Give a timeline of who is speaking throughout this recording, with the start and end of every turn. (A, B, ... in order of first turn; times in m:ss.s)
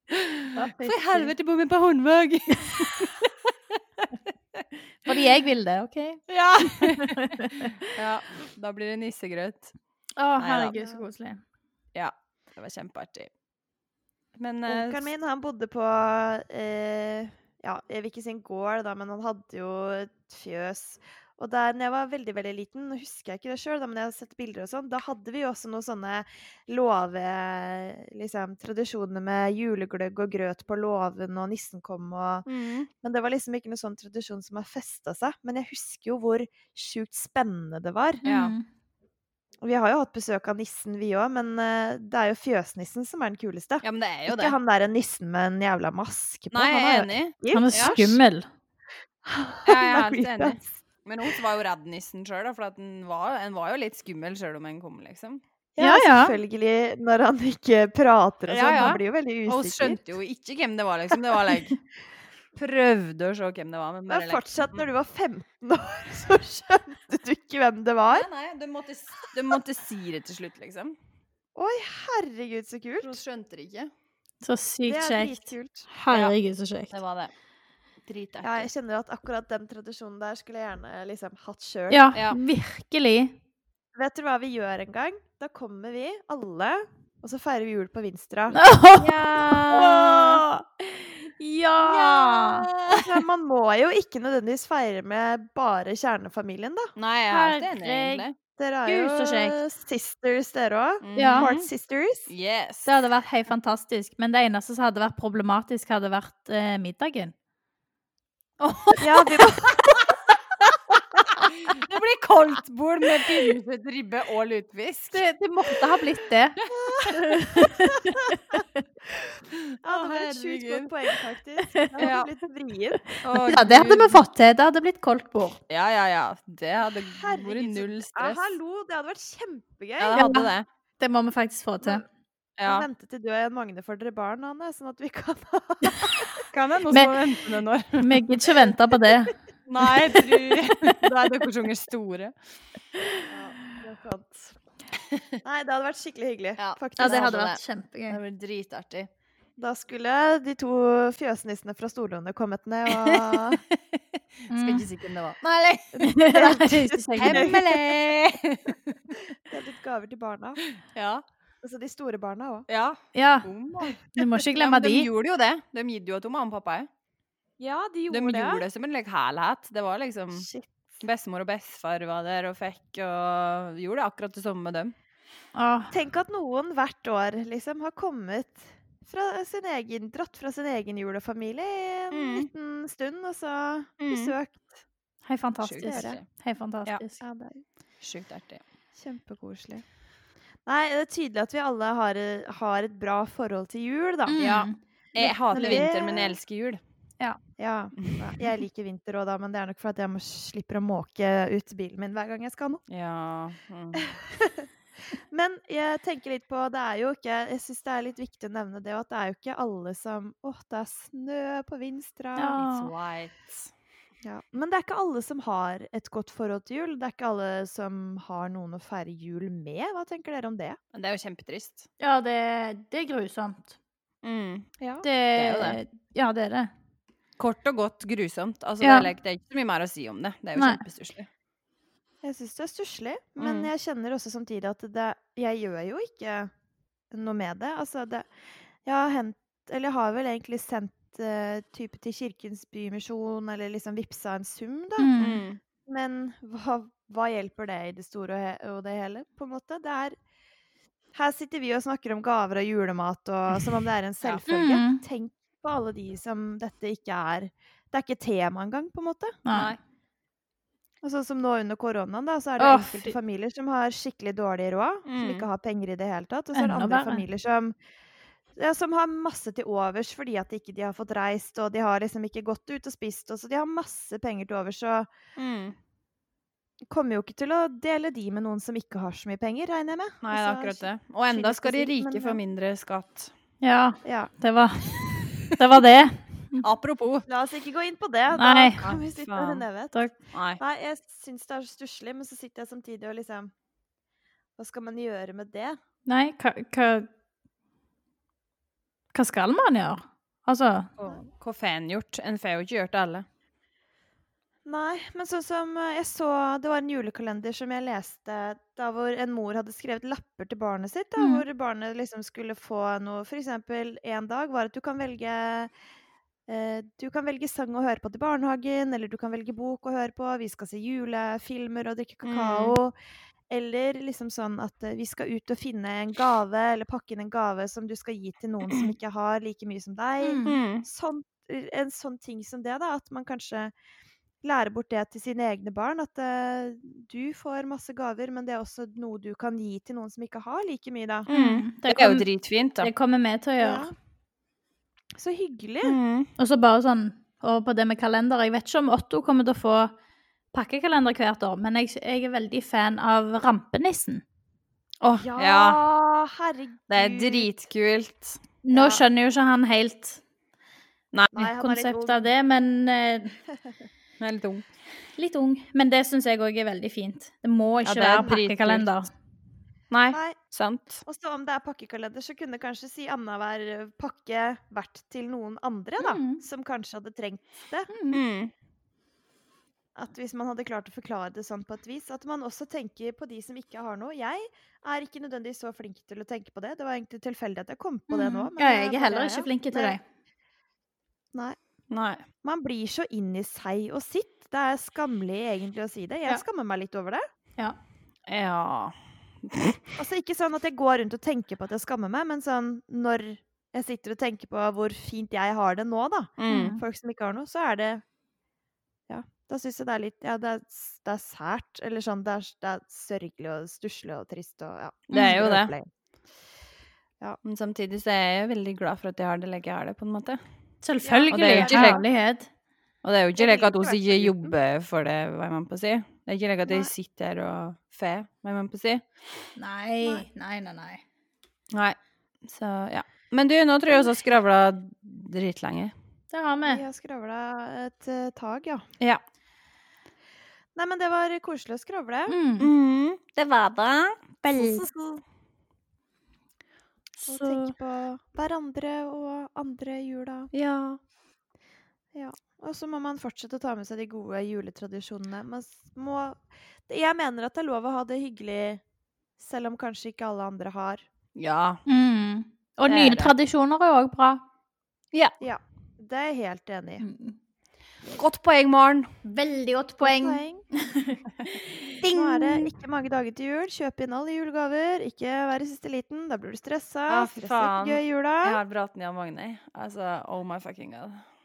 0:00.1-0:03.5 A
0:00.5-0:01.3 B
0:04.0-0:05.1 A
0:05.0-0:07.9 B
0:06.3-0:09.7 A
0:10.2-0:11.4 B
0:10.4-0:10.8 A
0:10.7-0:11.0 C
0:11.9-0:13.3 A
0:14.4-0:15.1 A
0:14.7-0:32.5 C
0:32.4-0:32.9 A
0:33.0-0:38.2 C
0:38.2-0:38.5 A
0:38.2-0:38.6 B
0:39.6-0:47.7 C
0:43.8-0:44.6 A
0:46.5-0:48.2 A
0:47.5-0:48.5 B
0:49.2-0:51.4 C
0:49.6-0:55.4 A
0:55.7-1:00.0 C
0:55.8-0:56.4 B
0:58.5-1:01.8 A
1:02.5-1:04.8 A
1:04.1-1:08.3 C
1:08.1-1:11.0 A
1:11.6-1:13.2 C
1:13.0-1:13.9 A
1:14.4-1:17.0 B
1:14.8-1:15.9 C
1:16.9-1:17.3 A
1:18.1-1:18.7 A
1:18.4-1:22.1 C
1:21.9-1:23.4 B
1:22.1-1:22.4 A
1:23.9-1:28.6 C
1:28.5-1:32.7 B
1:28.9-1:30.4 A
1:31.8-1:33.2 A
1:32.9-1:36.9 C
1:37.0-1:38.3 A
1:37.3-1:38.2 B
1:38.6-1:42.3 C
1:38.8-1:39.6 B
1:41.0-1:41.7 A
1:41.2-1:41.5 B
1:42.3-1:42.9 A
1:42.8-1:47.3 B
1:48.6-1:50.1 A
1:49.0-1:50.0 C
1:51.4-1:55.2 A
1:55.1-1:58.8 B
1:56.7-1:57.9 C
1:59.8-2:03.0 C
1:59.9-2:00.9 A
2:01.7-2:01.9 B
2:02.0-2:02.3 A
2:03.1-2:05.6 B
2:03.2-2:04.2 A
2:05.7-2:08.6 A
2:07.1-2:10.4 C
2:10.0-2:10.6 A
2:10.1-2:12.0 B
2:12.6-2:12.9 A
2:12.6-2:16.4 C
2:16.5-2:18.2 A
2:18.0-2:19.3 B
2:19.7-2:22.3 A
2:20.3-2:20.9 B
2:23.3-2:24.5 C
2:25.4-2:27.4 C
2:26.6-2:29.1 A
2:27.0-2:28.2 B
2:29.6-2:33.6 C
2:32.9-2:34.0 A
2:34.5-2:34.8 B
2:34.5-2:35.9 A
2:35.9-2:37.8 C
2:36.0-2:37.5 B
2:37.2-2:39.0 A
2:39.5-2:40.6 C
2:40.8-2:41.2 A
2:41.6-2:42.6 C
2:42.7-2:46.9 A
2:43.1-2:43.5 B
2:44.1-2:45.1 B
2:47.6-2:48.6 C
2:48.1-2:50.5 A
2:50.3-2:50.7 C
2:51.0-2:54.9 A
2:55.5-2:55.9 B
2:55.9-3:04.7 C
3:02.1-3:02.5 A
3:04.0-3:04.3 A
3:05.2-3:07.2 B
3:05.6-3:06.2 A
3:05.8-3:06.2 C
3:07.2-3:07.6 C
3:08.0-3:08.6 A
3:08.9-3:09.8 C
3:10.6-3:14.4 C
3:14.2-3:14.8 B
3:14.4-3:16.8 A
3:15.2-3:16.4 C
3:15.5-3:15.8 B
3:17.6-3:22.8 C
3:18.0-3:18.4 A
3:22.9-3:24.0 A
3:24.0-3:32.6 C
3:32.4-3:32.9 B
3:32.6-3:33.7 A
3:34.2-3:40.8 C
3:40.9-3:41.9 A
3:42.0-3:43.8 B
3:44.2-3:44.7 A
3:44.8-3:45.0 C
3:45.0-3:46.7 B
3:45.3-3:45.8 A
3:47.4-3:51.3 A
3:48.8-3:49.1 B
3:50.6-3:50.8 B
3:52.2-3:56.5 C
3:53.4-3:53.7 A
3:57.1-3:58.3 C
3:58.8-4:05.1 C
4:05.0-4:05.4 B
4:05.2-4:05.6 A
4:05.8-4:10.2 C
4:11.1-4:19.4 C
4:14.5-4:15.0 B
4:19.4-4:19.8 B
4:19.5-4:19.8 A
4:21.0-4:27.7 C
4:22.6-4:23.1 B
4:25.0-4:25.4 A
4:26.5-4:27.2 B
4:28.5-4:35.1 C
4:35.4-4:35.8 A
4:36.9-4:42.4 C
4:40.2-4:43.3 A
4:43.6-4:46.6 B
4:44.0-4:44.3 C
4:46.6-4:47.3 A
4:47.3-4:50.0 C
4:48.4-4:48.8 B
4:48.8-4:49.6 A
4:50.3-4:50.6 A
4:50.6-4:53.5 C
4:54.6-4:55.8 C
4:56.1-4:57.1 B
4:59.1-5:00.9 B
5:01.0-5:03.2 A
5:04.6-5:15.7 C
5:11.2-5:11.4 B
5:16.5-5:22.9 C
5:22.2-5:22.8 A
5:23.5-5:33.7 C
5:30.2-5:30.6 B
5:30.4-5:30.8 A
5:34.4-5:41.3 C
5:41.3-5:42.9 A
5:41.3-5:42.2 B
5:42.8-5:43.9 B
5:43.6-5:43.9 C
5:45.2-5:46.0 C
5:45.8-5:46.3 A
5:46.4-5:49.9 B
5:50.5-5:54.2 B
5:55.0-5:55.8 A
5:55.2-5:57.5 C
5:56.9-5:58.4 A
5:58.6-6:00.2 B
5:58.7-5:59.0 C
6:01.3-6:02.3 C
6:01.4-6:03.4 B
6:04.2-6:04.6 A
6:05.2-6:09.1 B
6:07.8-6:08.9 A
6:09.9-6:11.0 A
6:10.1-6:10.4 C
6:11.0-6:17.9 C
6:16.0-6:16.4 B
6:17.9-6:18.2 B
6:18.1-6:18.5 A
6:20.0-6:30.0 C
6:28.1-6:30.0 B
6:31.9-6:32.2 A
6:32.4-6:37.2 C
6:38.3-6:38.9 A
6:39.4-6:39.8 A
6:40.0-6:48.0 C
6:46.4-6:46.7 A
6:46.5-6:46.8 B
6:49.1-6:55.9 C
6:55.1-6:55.7 A
6:57.4-7:00.4 A
7:00.8-7:02.5 B
7:01.0-7:02.0 C
7:01.3-7:02.0 A
7:03.0-7:09.0 A
7:03.4-7:04.6 C
7:06.6-7:06.9 C
7:09.6-7:11.0 B
7:11.7-7:15.9 A
7:16.3-7:16.8 B
7:16.6-7:18.8 C
7:20.7-7:22.4 C
7:22.3-7:22.7 B
7:22.6-7:24.9 A
7:24.5-7:25.2 C
7:27.2-7:27.7 A
7:27.2-7:30.5 C
7:30.5-7:31.0 A
7:32.1-7:38.8 C
7:39.4-7:41.0 C
7:41.4-7:41.8 A
7:41.8-7:44.4 B
7:42.8-7:43.3 A
7:45.4-7:47.0 C
7:47.0-7:47.4 B
7:48.1-7:49.1 A
7:49.2-7:51.9 B
7:50.0-7:50.6 C
7:52.0-7:52.7 A
7:52.0-7:58.6 C
7:57.1-8:01.2 A